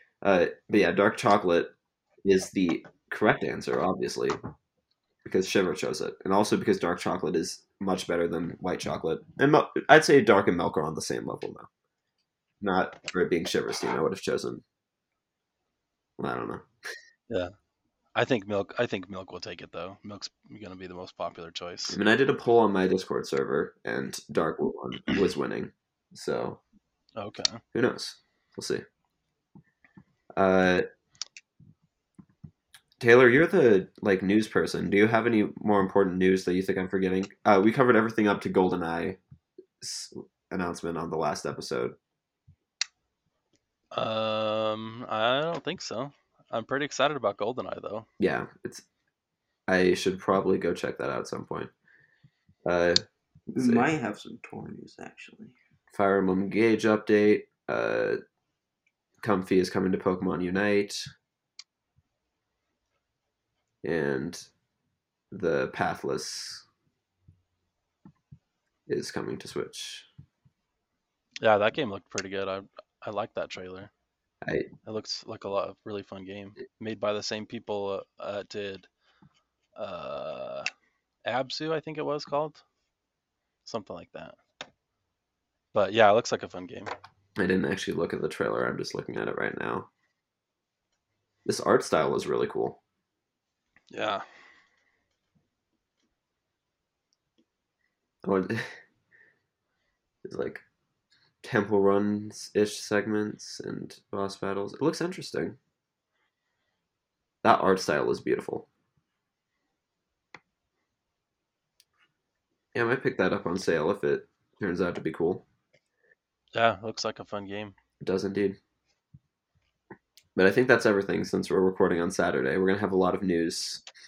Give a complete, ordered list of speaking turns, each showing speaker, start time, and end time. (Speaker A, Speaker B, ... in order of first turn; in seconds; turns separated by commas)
Speaker A: 0.2-4.4, Speaker A: 5.2-11.7, Speaker A: 12.6-14.6, Speaker A: 16.2-16.6, Speaker B: 17.3-17.5, Speaker B: 18.1-21.9, Speaker A: 21.9-26.6, Speaker B: 27.1-27.6, Speaker A: 27.7-28.8, Speaker A: 30.3-30.8, Speaker A: 33.0-39.2, Speaker A: 39.8-42.0, Speaker B: 43.9-48.1, Speaker A: 48.2-48.8, Speaker A: 49.7-51.7, Speaker A: 52.6-53.0, Speaker C: 53.5-55.5, Speaker A: 53.5-53.9, Speaker A: 55.9-58.2, Speaker A: 59.2-61.1, Speaker A: 63.8-64.5, Speaker A: 65.3-66.6, Speaker A: 68.9-70.1, Speaker B: 71.4-73.9, Speaker A: 74.4-74.7, Speaker B: 74.8-78.9, Speaker B: 79.8-80.7, Speaker B: 81.2-82.6, Speaker B: 83.7-84.4, Speaker B: 85.7-86.9, Speaker A: 87.4-89.9, Speaker A: 91.5-92.8, Speaker B: 93.9-94.2, Speaker A: 98.2-98.8, Speaker A: 100.2-100.6, Speaker A: 101.4-105.6, Speaker A: 107.4-108.7, Speaker A: 112.7-115.4, Speaker B: 116.5-117.7, Speaker A: 118.0-118.6, Speaker A: 120.3-123.8